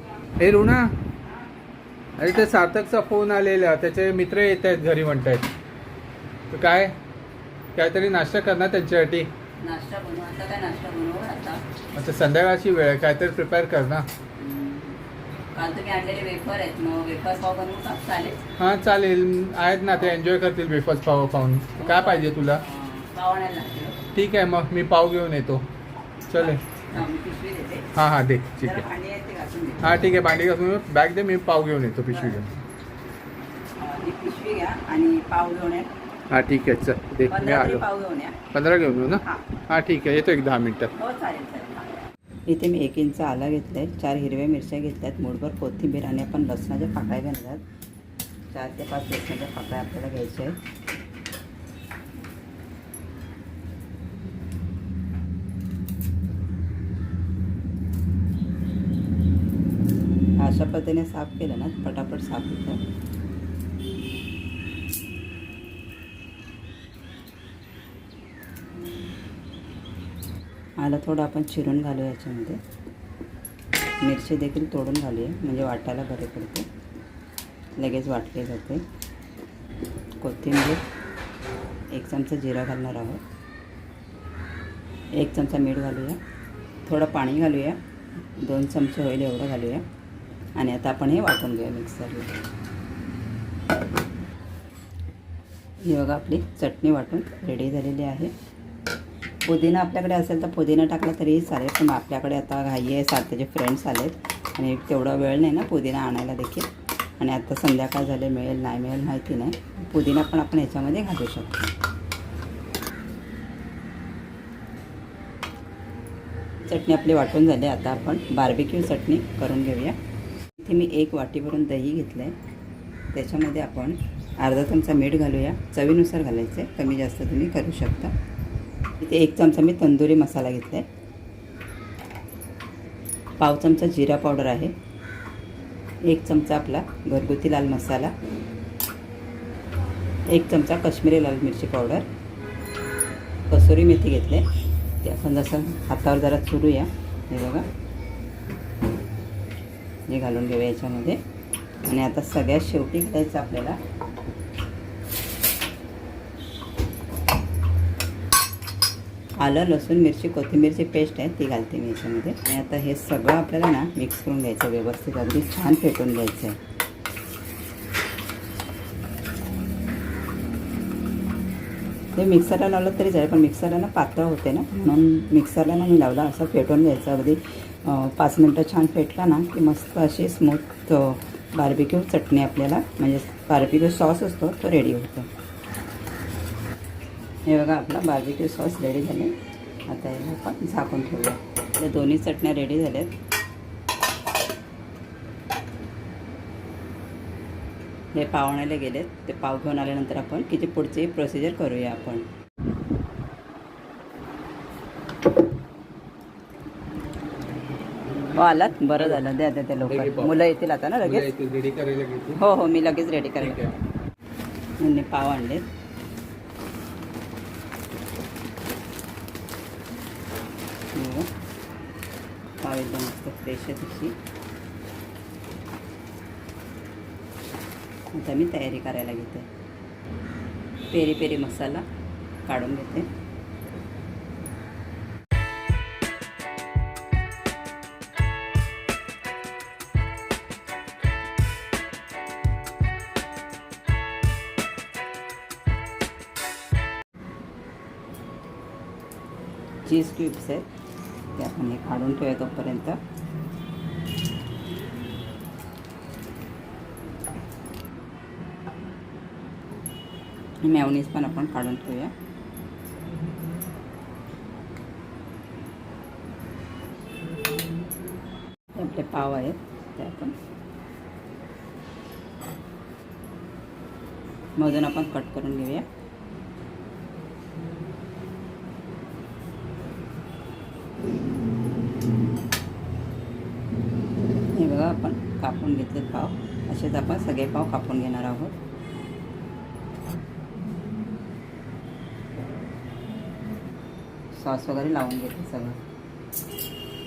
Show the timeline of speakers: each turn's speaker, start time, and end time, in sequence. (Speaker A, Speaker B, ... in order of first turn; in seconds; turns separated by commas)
Speaker A: 0.4-0.9, Speaker A: 2.2-5.5, Speaker A: 6.5-6.9, Speaker A: 7.8-9.3, Speaker B: 9.6-11.6, Speaker A: 12.0-14.1, Speaker B: 14.4-15.0, Speaker B: 15.5-18.4, Speaker A: 18.6-22.6, Speaker B: 21.8-24.0, Speaker A: 24.1-25.6, Speaker A: 26.3-26.6, Speaker B: 26.4-27.9, Speaker A: 27.9-28.8, Speaker B: 28.6-30.4, Speaker A: 29.8-32.5, Speaker B: 32.1-32.4, Speaker B: 33.8-35.9, Speaker A: 36.3-37.9, Speaker B: 37.3-38.4, Speaker A: 38.5-40.9, Speaker B: 41.0-41.9, Speaker B: 42.5-47.6, Speaker B: 48.5-50.6, Speaker B: 60.4-62.8, Speaker B: 70.8-72.6, Speaker B: 74.0-76.7, Speaker B: 77.8-78.8, Speaker B: 80.2-80.8, Speaker B: 81.9-83.2, Speaker B: 85.2-86.2, Speaker B: 86.9-87.8, Speaker B: 88.4-89.8, Speaker B: 90.6-92.3, Speaker B: 95.9-98.3, Speaker B: 99.5-111.7, Speaker B: 116.7-120.0, Speaker B: 120.6-122.3, Speaker B: 123.1-128.1, Speaker B: 129.0-130.9, Speaker B: 133.4-134.7, Speaker B: 136.1-138.1, Speaker B: 140.3-142.1, Speaker B: 143.5-144.4, Speaker B: 145.0-147.7, Speaker B: 150.1-151.2, Speaker B: 151.8-153.8, Speaker B: 159.4-166.6, Speaker B: 172.2-185.3, Speaker B: 187.5-189.3, Speaker B: 189.9-193.1, Speaker B: 198.2-202.2, Speaker B: 208.3-211.3, Speaker A: 208.9-209.2, Speaker A: 209.9-210.4, Speaker A: 211.0-212.4, Speaker B: 212.4-213.6, Speaker A: 213.4-213.7, Speaker B: 214.8-215.7, Speaker B: 220.9-221.3, Speaker B: 222.6-224.2, Speaker B: 228.1-229.5, Speaker B: 230.9-231.8, Speaker B: 232.5-233.1, Speaker B: 249.9-250.7, Speaker B: 251.4-253.0, Speaker B: 260.6-262.1, Speaker B: 268.8-270.3, Speaker B: 274.6-275.9, Speaker B: 284.5-288.5, Speaker B: 294.4-295.8